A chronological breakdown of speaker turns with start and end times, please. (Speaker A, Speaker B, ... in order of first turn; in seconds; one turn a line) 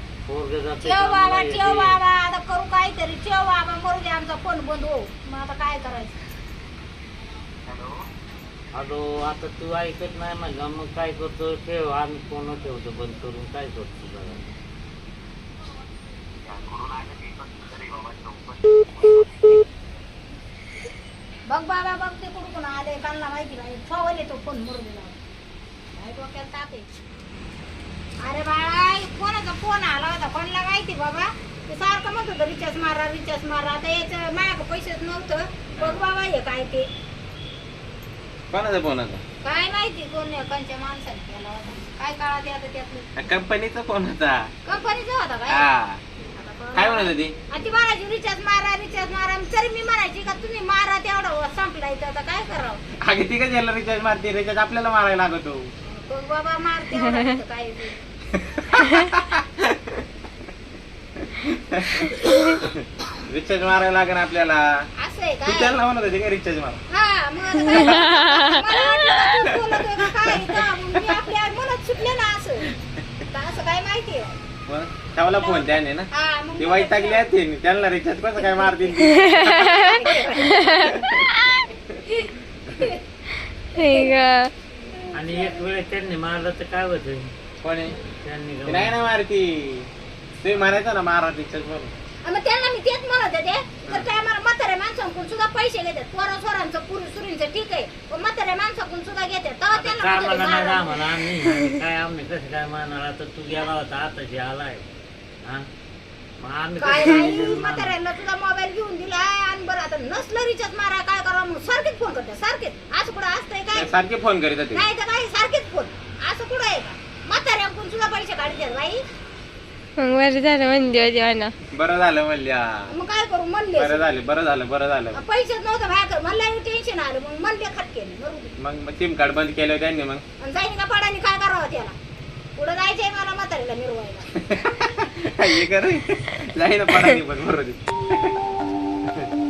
Speaker A: 0.2-2.0
Speaker B: 0.8-6.2
Speaker C: 7.7-8.0
Speaker A: 8.7-14.4
Speaker C: 16.4-19.6
Speaker B: 21.5-25.2
Speaker B: 25.9-26.9
Speaker B: 28.2-36.9
Speaker D: 35.7-36.0
Speaker D: 38.5-39.2
Speaker B: 39.4-43.1
Speaker D: 43.1-44.5
Speaker B: 44.6-45.6
Speaker D: 45.5-46.0
Speaker B: 46.3-52.8
Speaker D: 46.7-47.3
Speaker D: 53.0-55.7
Speaker B: 55.9-58.0
Speaker D: 58.3-59.9
Speaker D: 61.2-64.8
Speaker B: 65.0-65.8
Speaker D: 65.4-66.8
Speaker B: 66.9-72.7
Speaker E: 67.7-68.6
Speaker D: 67.8-68.1
Speaker D: 70.4-71.1
Speaker B: 73.3-74.3
Speaker D: 74.7-79.7
Speaker B: 75.3-77.3
Speaker B: 78.4-78.9
Speaker E: 79.2-80.9
Speaker B: 79.5-80.9
Speaker D: 80.9-81.2
Speaker B: 82.1-83.0
Speaker E: 83.7-84.5
Speaker B: 83.8-84.2
Speaker B: 85.0-85.6
Speaker A: 85.1-87.2
Speaker D: 87.6-88.0
Speaker A: 88.1-88.9
Speaker D: 88.7-89.9
Speaker D: 90.4-91.9
Speaker B: 92.2-101.0
Speaker A: 99.7-104.8
Speaker A: 106.4-108.0
Speaker B: 106.8-113.9
Speaker D: 113.7-114.9
Speaker B: 114.7-119.0
Speaker E: 120.0-121.5
Speaker D: 121.7-122.9
Speaker B: 122.9-124.1
Speaker D: 123.8-125.2
Speaker B: 125.1-128.5
Speaker D: 128.6-130.2
Speaker B: 130.4-131.9
Speaker B: 132.6-134.3
Speaker D: 134.3-138.3